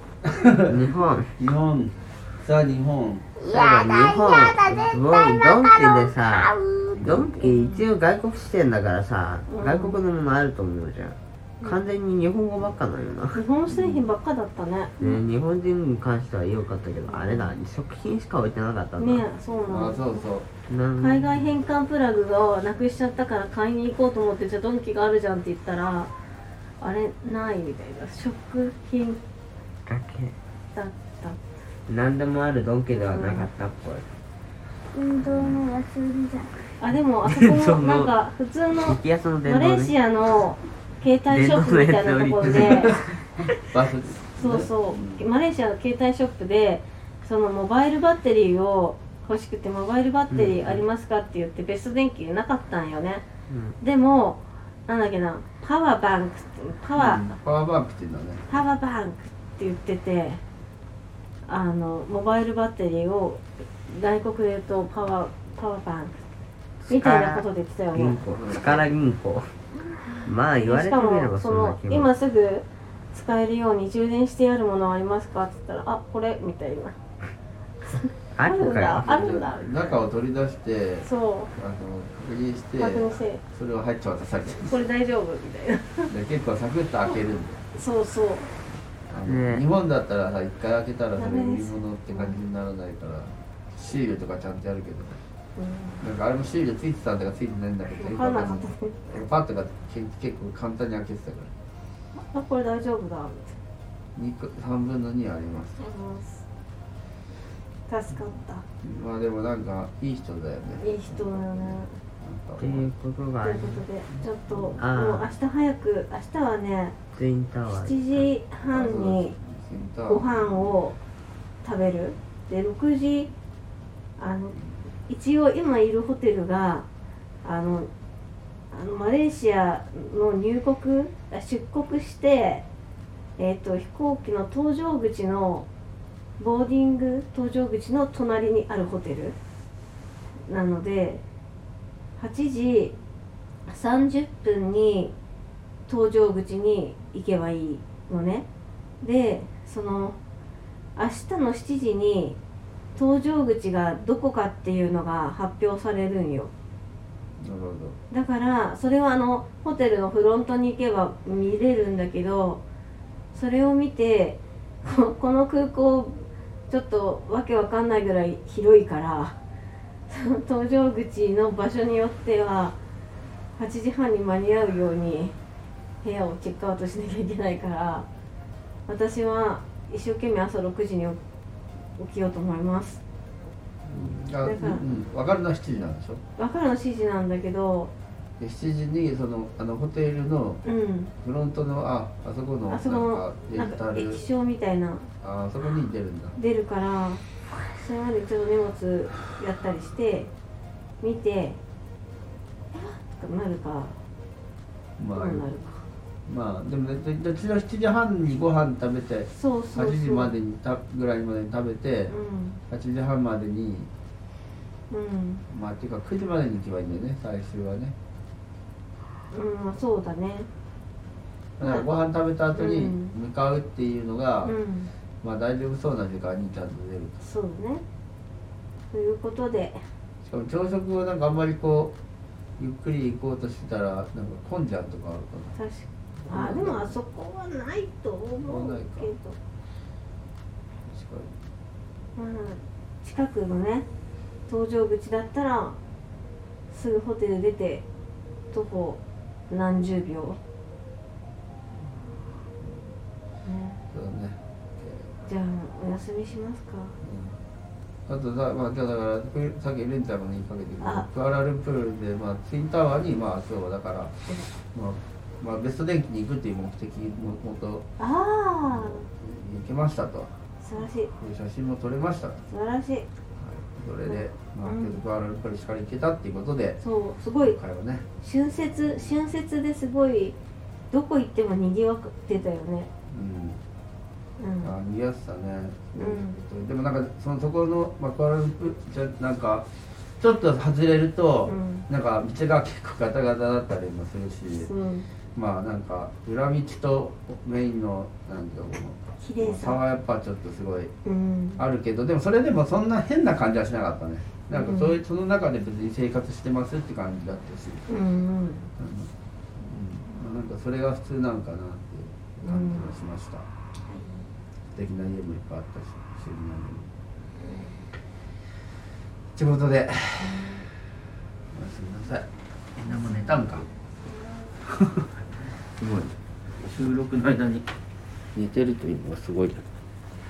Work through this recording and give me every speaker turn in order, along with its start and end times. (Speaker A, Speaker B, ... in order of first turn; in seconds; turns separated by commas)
Speaker A: 0.2-0.7, Speaker B: 0.7-1.3, Speaker A: 1.4-3.6, Speaker C: 3.4-7.4, Speaker B: 3.5-13.4, Speaker D: 7.4-7.9, Speaker D: 9.5-10.0, Speaker D: 13.3-15.2, Speaker A: 13.7-14.0, Speaker B: 15.0-19.2, Speaker D: 17.1-17.5, Speaker D: 19.0-20.3, Speaker A: 19.7-20.5, Speaker B: 20.7-21.3, Speaker D: 21.0-26.1, Speaker D: 26.8-29.2, Speaker B: 29.9-30.4, Speaker D: 30.7-31.4, Speaker B: 31.9-34.0, Speaker D: 32.9-33.5, Speaker C: 34.9-36.7, Speaker A: 35.3-35.6, Speaker D: 36.8-43.7, Speaker B: 37.3-38.1, Speaker B: 38.8-39.9, Speaker B: 41.3-42.9, Speaker A: 42.5-43.2, Speaker A: 43.7-45.2, Speaker D: 44.3-53.2, Speaker B: 50.3-50.7, Speaker B: 53.5-53.8, Speaker D: 53.8-57.3, Speaker A: 57.0-58.5, Speaker D: 58.5-60.4, Speaker D: 61.5-66.2, Speaker B: 66.8-69.5, Speaker D: 66.9-68.8, Speaker B: 70.2-72.1, Speaker D: 70.6-77.0, Speaker D: 77.8-79.9, Speaker B: 78.3-79.1, Speaker A: 78.9-84.8, Speaker D: 81.0-81.5, Speaker D: 82.8-83.4, Speaker D: 84.7-86.1, Speaker A: 86.1-87.6, Speaker D: 87.7-88.5, Speaker A: 89.1-95.2, Speaker B: 89.3-89.6, Speaker D: 91.2-92.4, Speaker D: 95.6-96.0, Speaker A: 96.0-101.5, Speaker D: 97.9-99.0, Speaker D: 102.2-103.5, Speaker A: 104.2-105.8, Speaker D: 105.8-106.4, Speaker D: 107.9-108.6, Speaker A: 108.8-112.9, Speaker D: 110.8-111.9, Speaker B: 112.6-113.8, Speaker D: 113.4-117.0, Speaker B: 114.8-115.3, Speaker B: 117.1-118.3, Speaker D: 117.7-119.3, Speaker A: 118.6-120.8, Speaker D: 120.1-121.0, Speaker D: 121.6-123.3, Speaker D: 124.2-124.6, Speaker D: 125.1-126.9, Speaker D: 127.4-127.9, Speaker D: 128.7-132.7, Speaker D: 133.4-135.7, Speaker D: 136.4-139.4, Speaker D: 140.5-141.2, Speaker D: 142.2-142.9, Speaker D: 143.7-145.1, Speaker D: 145.9-148.5, Speaker D: 149.0-150.2, Speaker D: 151.0-152.4, Speaker D: 153.0-156.5, Speaker A: 157.4-158.0, Speaker D: 158.1-162.6, Speaker D: 163.3-169.4, Speaker D: 170.1-172.8, Speaker D: 173.6-175.4, Speaker D: 176.0-178.1, Speaker D: 178.9-181.2, Speaker D: 182.0-183.0, Speaker A: 183.9-186.2, Speaker D: 184.4-184.8, Speaker D: 186.4-187.9, Speaker A: 188.4-190.6, Speaker D: 190.6-191.1, Speaker A: 191.2-194.2, Speaker D: 192.7-195.1, Speaker A: 195.2-196.4, Speaker D: 196.4-200.3, Speaker D: 201.0-201.6, Speaker D: 202.7-204.0, Speaker A: 205.0-205.5, Speaker D: 205.1-205.8, Speaker A: 206.3-212.2, Speaker D: 209.3-210.3, Speaker D: 212.1-212.6, Speaker A: 212.7-213.9, Speaker D: 214.9-215.4, Speaker A: 215.5-217.9, Speaker D: 219.3-220.5, Speaker A: 221.6-224.5, Speaker D: 221.6-221.9, Speaker D: 222.5-223.2, Speaker D: 224.4-224.9, Speaker A: 225.2-227.2, Speaker D: 227.2-227.8, Speaker D: 228.9-229.8, Speaker A: 230.2-231.9, Speaker A: 232.6-235.6, Speaker D: 235.6-239.4, Speaker A: 236.2-237.0, Speaker A: 238.4-239.1, Speaker A: 240.8-241.3, Speaker D: 242.2-243.9, Speaker D: 244.5-245.8, Speaker D: 246.7-247.8, Speaker D: 248.5-250.4, Speaker A: 252.6-252.9, Speaker D: 253.4-253.8, Speaker A: 253.9-255.2, Speaker D: 255.2-257.0, Speaker A: 257.0-257.4, Speaker A: 258.1-264.1, Speaker D: 260.8-261.1, Speaker A: 264.7-267.9, Speaker D: 268.0-269.1, Speaker A: 268.6-270.3, Speaker D: 270.6-271.1, Speaker A: 271.2-272.4, Speaker D: 272.5-273.1, Speaker A: 273.4-276.8, Speaker D: 274.1-275.0, Speaker D: 276.8-277.6, Speaker A: 277.4-278.1, Speaker D: 278.2-280.4, Speaker A: 278.8-279.1, Speaker D: 280.9-282.9, Speaker A: 283.1-283.6, Speaker D: 284.4-284.7, Speaker A: 284.6-289.7, Speaker D: 286.0-286.4, Speaker A: 290.2-294.7, Speaker D: 291.5-291.9, Speaker D: 294.5-295.1, Speaker A: 295.4-300.9, Speaker D: 299.2-299.8, Speaker D: 301.1-301.6, Speaker A: 301.6-307.9, Speaker D: 304.5-305.0, Speaker D: 307.9-308.7, Speaker A: 308.8-313.5, Speaker D: 312.4-313.0, Speaker D: 313.9-314.3, Speaker A: 314.7-316.9, Speaker D: 317.4-317.8, Speaker A: 319.4-320.5, Speaker D: 320.2-320.7, Speaker A: 321.5-323.7, Speaker D: 324.1-324.5, Speaker A: 324.7-325.1, Speaker A: 325.8-327.7, Speaker A: 328.4-329.6